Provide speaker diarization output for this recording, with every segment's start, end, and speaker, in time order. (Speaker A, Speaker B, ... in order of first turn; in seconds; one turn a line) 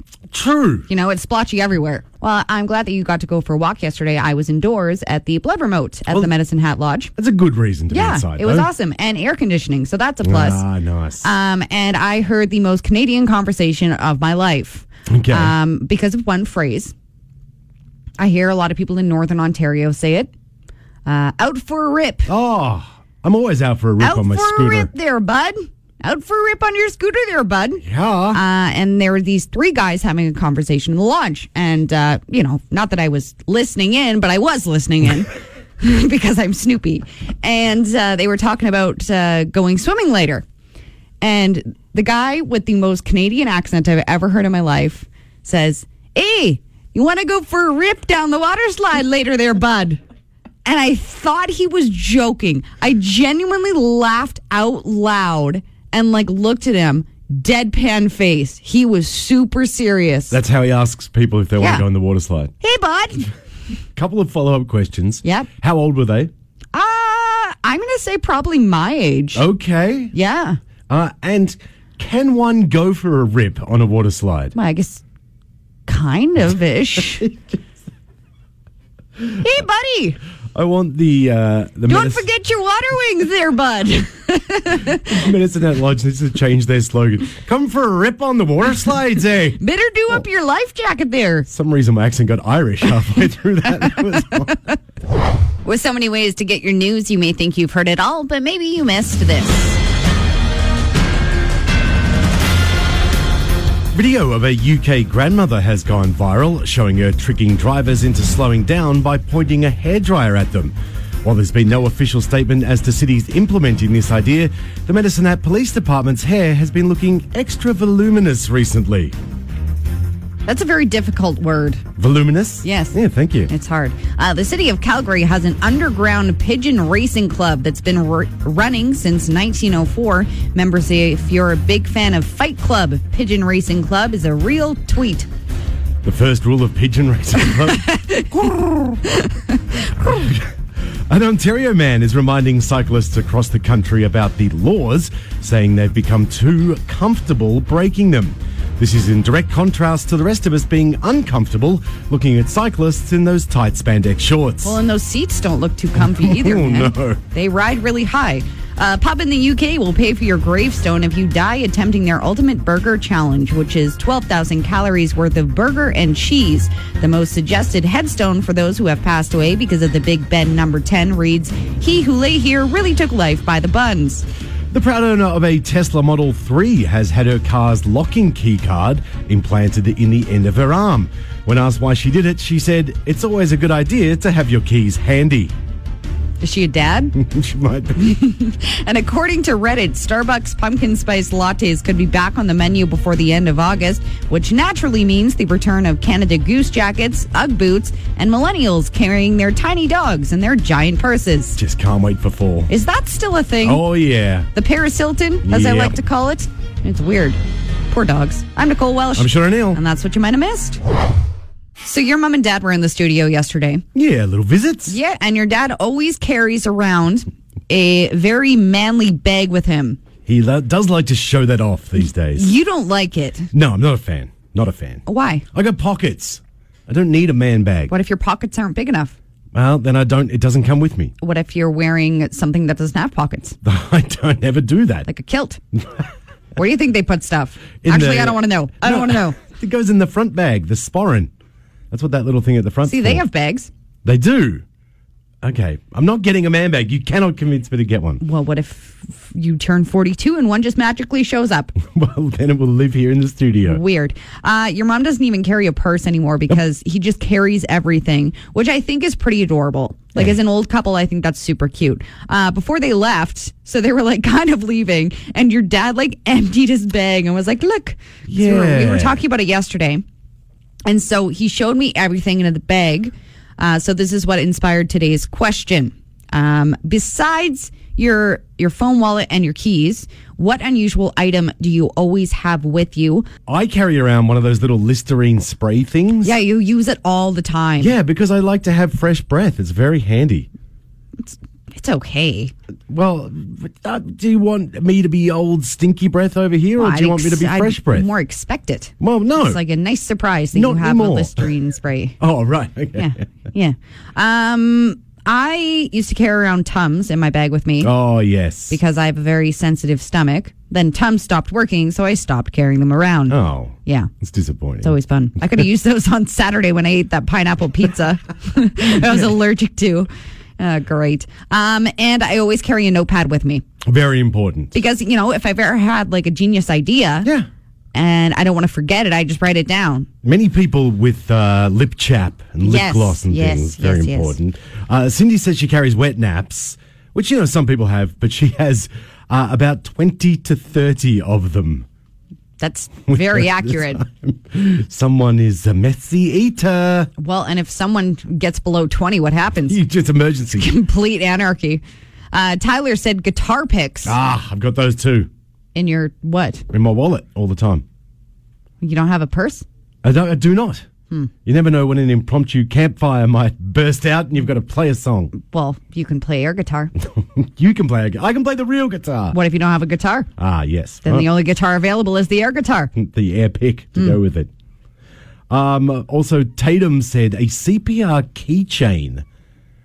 Speaker A: 0.3-0.9
Speaker B: 0.9-7.1
Speaker A: 7.2-8.7
Speaker B: 7.9-10.6
Speaker A: 10.2-11.3
Speaker B: 11.2-16.9
Speaker A: 15.1-15.5
Speaker B: 18.2-20.3
Speaker B: 21.0-22.3
Speaker A: 22.3-24.9
Speaker B: 24.0-40.4
Speaker A: 27.8-28.4
Speaker B: 41.2-50.0
Speaker B: 50.6-60.4
Speaker A: 60.3-62.5
Speaker B: 61.6-61.9
Speaker B: 62.6-63.3
Speaker A: 63.9-66.3
Speaker B: 65.2-65.5
Speaker B: 66.7-69.4
Speaker A: 69.3-70.1
Speaker B: 70.1-70.6
Speaker A: 70.9-74.5
Speaker B: 74.5-75.0
Speaker B: 75.8-77.3
Speaker B: 79.4-80.2
Speaker A: 80.5-82.3
Speaker B: 81.9-85.2
Speaker A: 84.9-89.6
Speaker B: 89.6-91.5
Speaker A: 91.5-94.6
Speaker B: 95.6-99.8
Speaker A: 103.9-119.1
Speaker B: 120.5-121.8
Speaker A: 122.0-123.5
Speaker B: 122.6-135.3
Speaker A: 136.0-137.8
Speaker B: 137.4-140.1
Speaker A: 140.0-140.5
Speaker A: 141.1-154.8
Speaker B: 154.6-174.2
Speaker A: 155.9-157.2
Speaker A: 174.7-185.5
Speaker B: 186.4-187.2
Speaker A: 187.1-188.0
Speaker B: 187.9-201.6
Speaker A: 201.6-202.7
Speaker B: 202.7-203.9
Speaker A: 203.6-204.5
Speaker B: 204.5-210.8
Speaker A: 205.4-206.0
Speaker A: 209.1-209.8
Speaker B: 211.8-213.8
Speaker A: 213.9-214.9
Speaker B: 214.9-220.0
Speaker A: 220.2-222.5
Speaker B: 222.3-223.5
Speaker A: 223.5-227.9
Speaker B: 225.1-225.4
Speaker B: 227.9-229.2
Speaker A: 229.5-231.1
Speaker B: 231.2-233.6
Speaker A: 233.6-235.1
Speaker B: 235.1-235.6
Speaker B: 236.6-239.4
Speaker A: 237.8-241.3
Speaker A: 241.9-243.2
Speaker B: 242.8-243.7
Speaker A: 244.0-244.6
Speaker A: 245.4-248.2
Speaker B: 248.2-251.8
Speaker A: 251.8-253.8
Speaker B: 253.6-270.0
Speaker A: 268.3-269.2
Speaker B: 270.9-283.3
Speaker A: 283.4-286.3
Speaker B: 286.2-287.9
Speaker A: 287.8-290.5
Speaker B: 291.2-292.5
Speaker A: 292.9-298.1
Speaker B: 296.8-302.2
Speaker A: 299.0-299.6
Speaker A: 300.5-301.5
Speaker A: 302.2-303.1
Speaker B: 303.0-307.9
Speaker A: 307.8-308.8
Speaker B: 308.7-314.1
Speaker A: 313.3-314.9
Speaker B: 314.8-323.6
Speaker A: 323.9-324.8
Speaker B: 324.7-327.3
Speaker B: 327.9-330.1
Speaker A: 330.2-341.9
Speaker B: 332.6-334.4
Speaker B: 342.6-344.0
Speaker A: 343.1-347.1
Speaker B: 347.2-349.8
Speaker A: 349.7-350.7
Speaker B: 350.6-354.1
Speaker A: 354.0-355.3
Speaker B: 355.7-356.6
Speaker A: 356.7-357.8
Speaker B: 358.8-359.6
Speaker A: 360.0-360.9
Speaker A: 361.4-365.3
Speaker B: 365.3-366.9
Speaker A: 367.0-369.4
Speaker B: 369.3-370.3
Speaker A: 370.4-371.3
Speaker B: 371.0-372.9
Speaker A: 372.9-374.5
Speaker A: 375.5-379.2